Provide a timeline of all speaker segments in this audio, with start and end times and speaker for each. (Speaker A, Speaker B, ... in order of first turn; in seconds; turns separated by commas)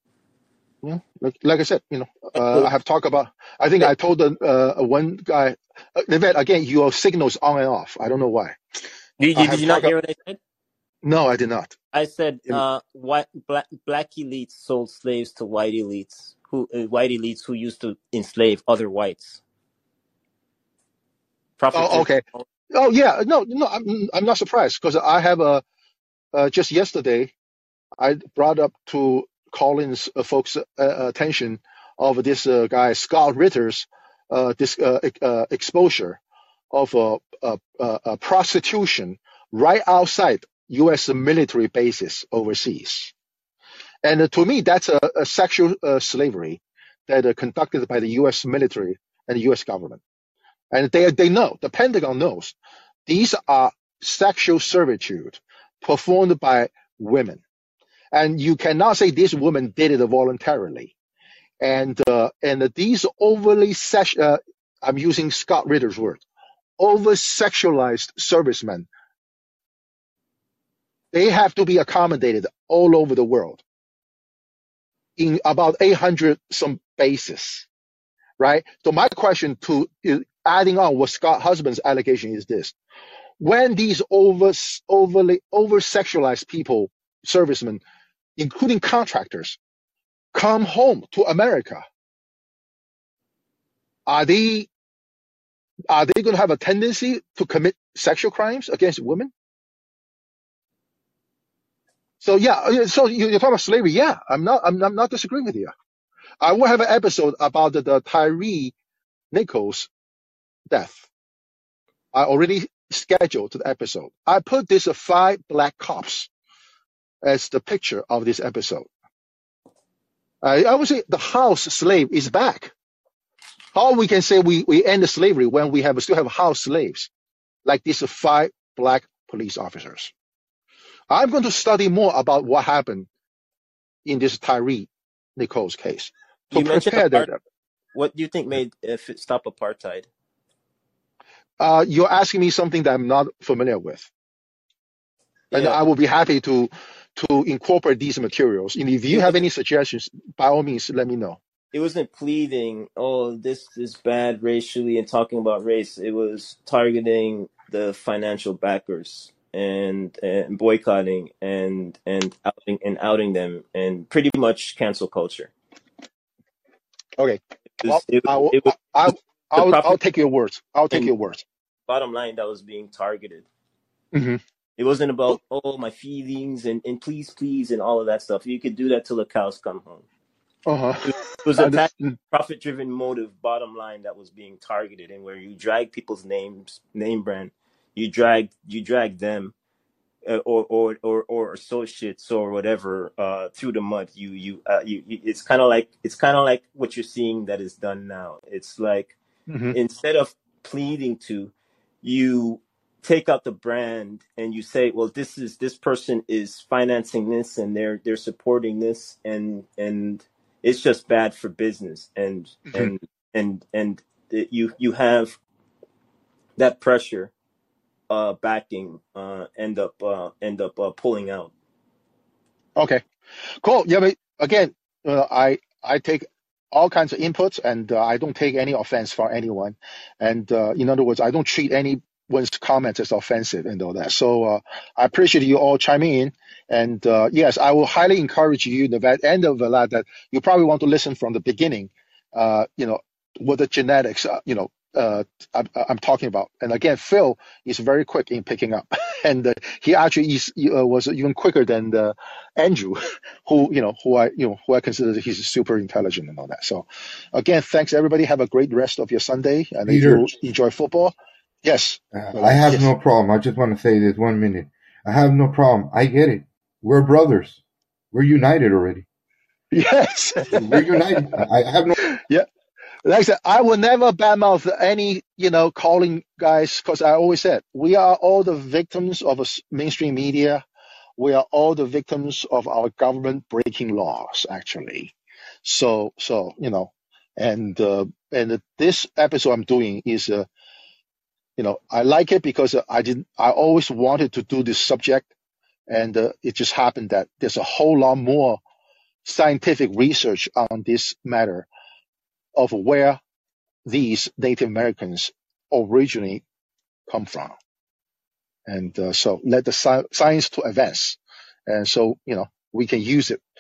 Speaker A: 0.8-8.6, Speaker B: 2.4-2.7, Speaker B: 9.2-10.4, Speaker A: 9.3-9.9, Speaker A: 11.0-11.8, Speaker B: 11.9-19.4, Speaker B: 21.6-22.4, Speaker A: 21.7-25.6, Speaker A: 26.3-27.3, Speaker A: 28.0-36.2, Speaker A: 36.7-43.1, Speaker A: 44.0-50.0, Speaker A: 50.7-52.5, Speaker A: 53.1-57.4, Speaker A: 58.1-60.9, Speaker A: 61.6-66.2, Speaker A: 66.8-68.9, Speaker A: 71.1-73.6, Speaker A: 75.2-77.7, Speaker A: 78.4-82.7, Speaker A: 83.4-87.8, Speaker A: 88.4-89.6, Speaker A: 90.3-91.8, Speaker A: 94.1-94.7, Speaker A: 95.9-99.3, Speaker A: 102.2-105.7, Speaker A: 106.4-108.7, Speaker A: 109.3-109.9, Speaker A: 110.7-111.1, Speaker A: 112.1-116.3, Speaker A: 117.2-118.9, Speaker A: 120.4-122.7, Speaker A: 123.7-127.1, Speaker A: 127.6-130.1, Speaker A: 131.1-133.1, Speaker A: 134.0-137.3, Speaker B: 136.5-137.3, Speaker B: 137.9-140.1, Speaker A: 141.6-144.1, Speaker B: 145.5-145.8, Speaker A: 145.5-151.4, Speaker B: 149.1-149.4, Speaker B: 151.7-165.5, Speaker A: 167.2-171.4, Speaker B: 167.8-168.7, Speaker B: 169.5-170.0, Speaker B: 171.9-173.5, Speaker A: 174.1-174.4, Speaker B: 174.8-180.1, Speaker A: 180.7-182.2, Speaker B: 181.1-189.5, Speaker B: 190.2-199.2, Speaker A: 199.5-199.8, Speaker B: 199.7-215.4, Speaker B: 216.6-217.3, Speaker B: 218.1-221.5, Speaker A: 222.8-223.0, Speaker A: 223.6-262.9, Speaker C: 259.9-260.3, Speaker C: 262.1-267.6, Speaker C: 268.1-269.1, Speaker A: 269.7-271.4, Speaker C: 270.5-271.9, Speaker A: 272.0-272.4, Speaker A: 273.0-280.6, Speaker A: 281.2-285.1, Speaker A: 285.6-290.5, Speaker A: 291.6-295.3, Speaker A: 295.9-298.6, Speaker A: 299.2-301.7, Speaker A: 302.6-303.2, Speaker A: 303.8-306.4, Speaker A: 307.1-307.5, Speaker A: 308.7-313.4